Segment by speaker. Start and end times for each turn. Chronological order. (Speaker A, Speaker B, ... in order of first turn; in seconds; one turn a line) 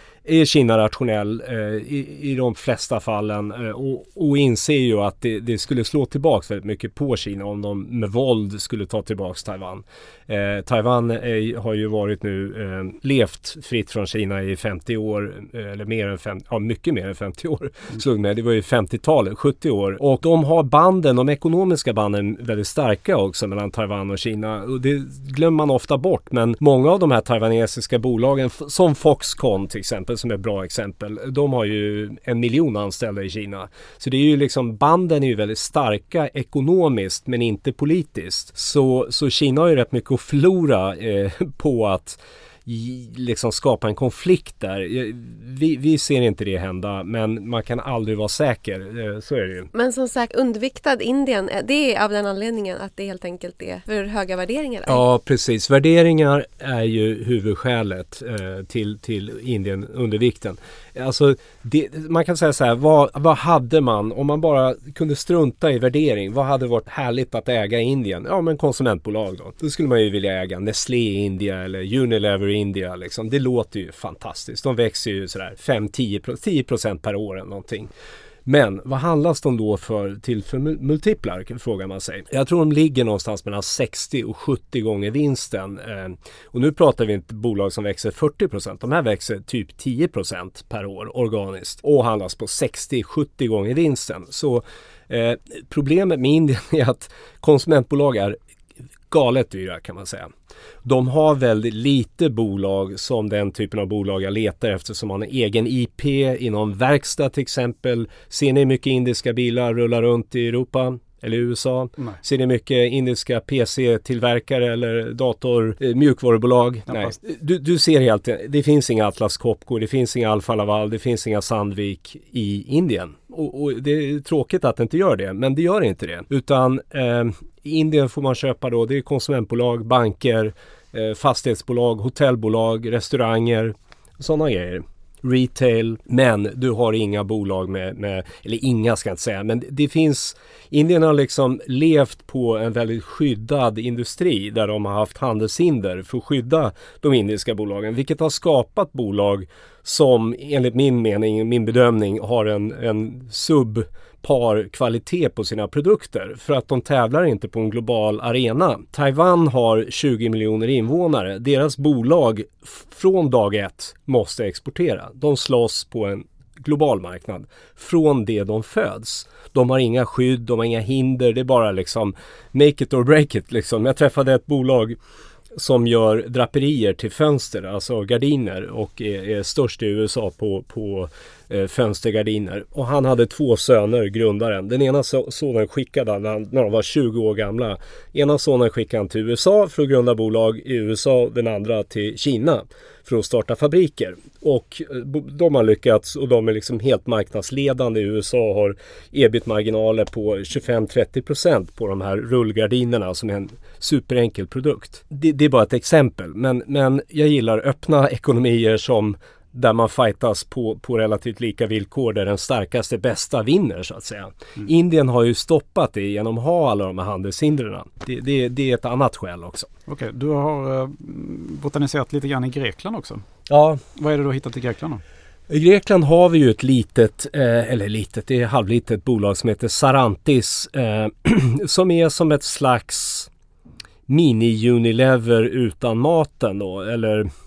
Speaker A: 0.2-49.7
Speaker B: 49.7-55.0
Speaker A: 54.9-77.9
Speaker A: 78.5-98.4
Speaker A: 99.1-100.3
Speaker A: 100.8-174.9
Speaker C: 116.9-117.1
Speaker A: 175.6-219.7
Speaker C: 219.9-223.2
Speaker A: 223.5-223.8
Speaker C: 223.9-225.0
Speaker A: 225.5-233.3
Speaker A: 234.1-237.3